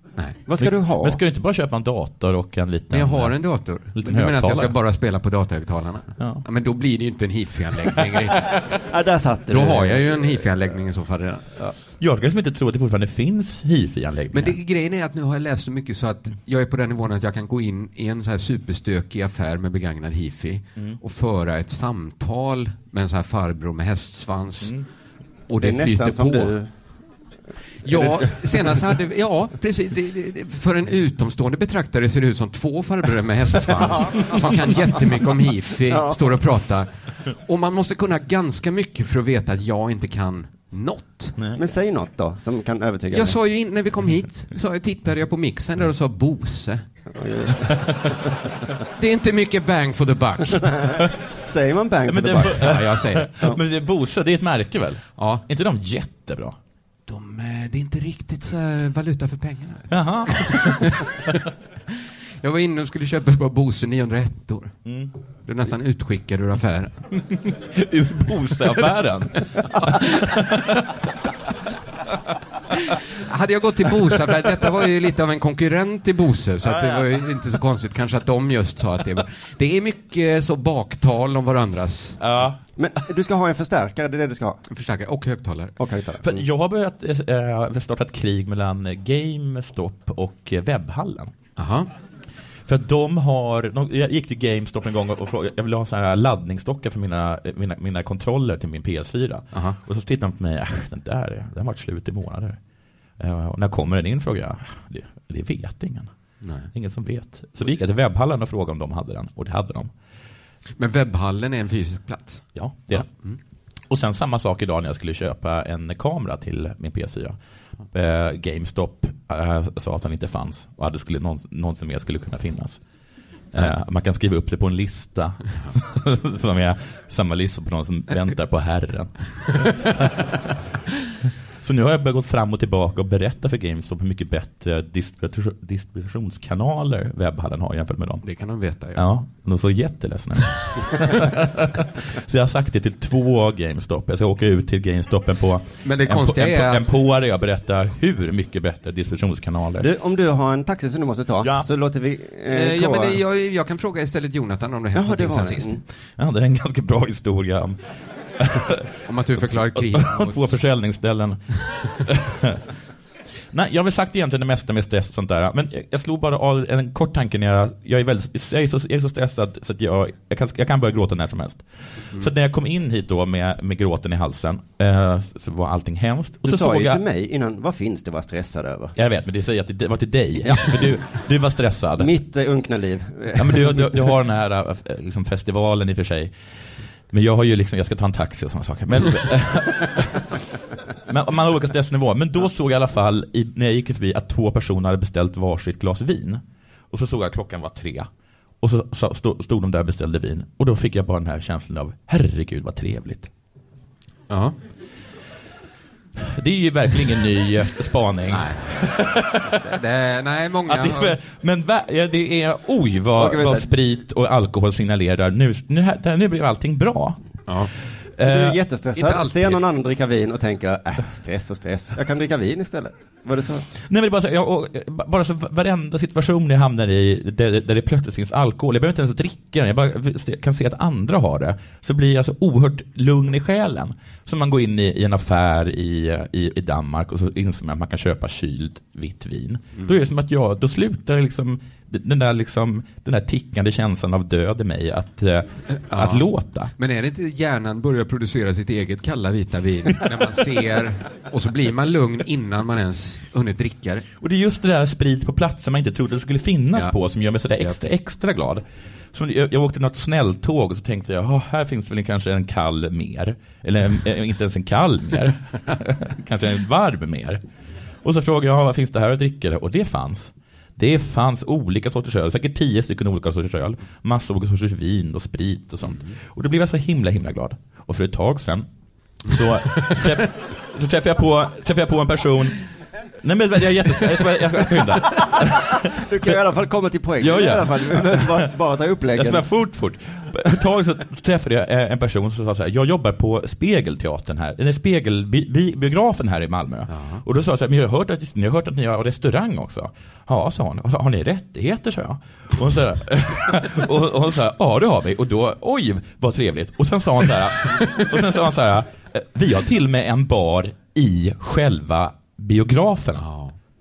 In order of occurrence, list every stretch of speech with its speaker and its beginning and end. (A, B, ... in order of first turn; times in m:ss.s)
0:00.4-0:04.7 A
0:00.5-0:01.2 B
0:02.9-0:08.7 C
0:06.2-0:06.4 A
0:08.8-0:10.7 B
0:09.5-0:11.5 C
0:11.9-0:14.6 A
0:14.3-0:24.8 C
0:25.5-0:26.5 C
0:25.5-0:27.0 B
0:27.8-0:41.4 C
0:27.8-0:28.8 B
0:35.9-0:36.2 B
0:41.6-0:43.4 B
0:43.1-0:46.8 C
0:47.1-0:48.1 B
0:49.0-0:50.7 C
0:50.6-0:52.8 B
0:52.1-0:56.6 A
0:52.6-0:53.3 C
0:55.2-0:55.4 C
0:57.1-1:01.4 C
0:59.9-1:00.9 A
1:02.4-1:04.8 C
1:04.8-1:05.1 A
1:05.4-1:07.1 C
1:07.1-1:10.8 A
1:09.4-1:10.2 C
1:12.7-1:22.2 C
1:16.6-1:17.1 A
1:22.2-1:22.6 A
1:22.8-1:24.6 B
1:24.7-1:26.4 C
1:25.8-1:26.3 B
1:26.2-1:31.3 A
1:31.6-1:31.9 C
1:32.6-1:42.6 A
1:39.5-1:39.8 C
1:43.2-1:46.1 A
1:46.4-1:46.7 C
1:46.7-1:49.9 A
1:50.8-1:53.4 C
1:52.5-1:53.1 A
1:53.9-1:57.4 A
1:57.9-2:02.8 A
2:03.5-2:10.5 A
2:11.6-2:18.2 A
2:18.2-2:19.0 C
2:18.9-2:29.9 A
2:25.8-2:26.8 C
2:29.8-2:33.2 B
2:31.4-2:31.7 A
2:32.5-2:35.8 C
2:34.9-2:35.8 B
2:36.2-2:42.6 A
2:39.0-2:40.6 C
2:43.5-2:57.0 A
2:56.4-2:58.9 B
2:59.0-3:02.1 A
3:00.4-3:00.9 B
3:02.0-3:04.1 B
3:03.3-3:06.3 A
3:07.1-3:18.1 A
3:18.6-3:23.3 A
3:24.3-3:24.5 C
3:26.2-3:29.6 A
3:28.3-3:28.9 C
3:29.4-3:31.2 C
3:30.7-3:38.6 A
3:33.2-3:33.7 B
3:38.2-3:43.7 B
3:39.0-3:39.6 C
3:43.8-4:06.7 A
4:05.7-4:14.0 C
4:14.2-4:27.4 A
4:28.0-4:38.7 A
4:35.8-4:36.2 C
4:39.2-4:42.6 A
4:43.2-4:46.3 A
4:46.0-4:49.4 B
4:47.2-4:48.4 A
4:49.1-5:13.2 A
4:56.9-4:57.2 C
5:13.2-5:13.5 C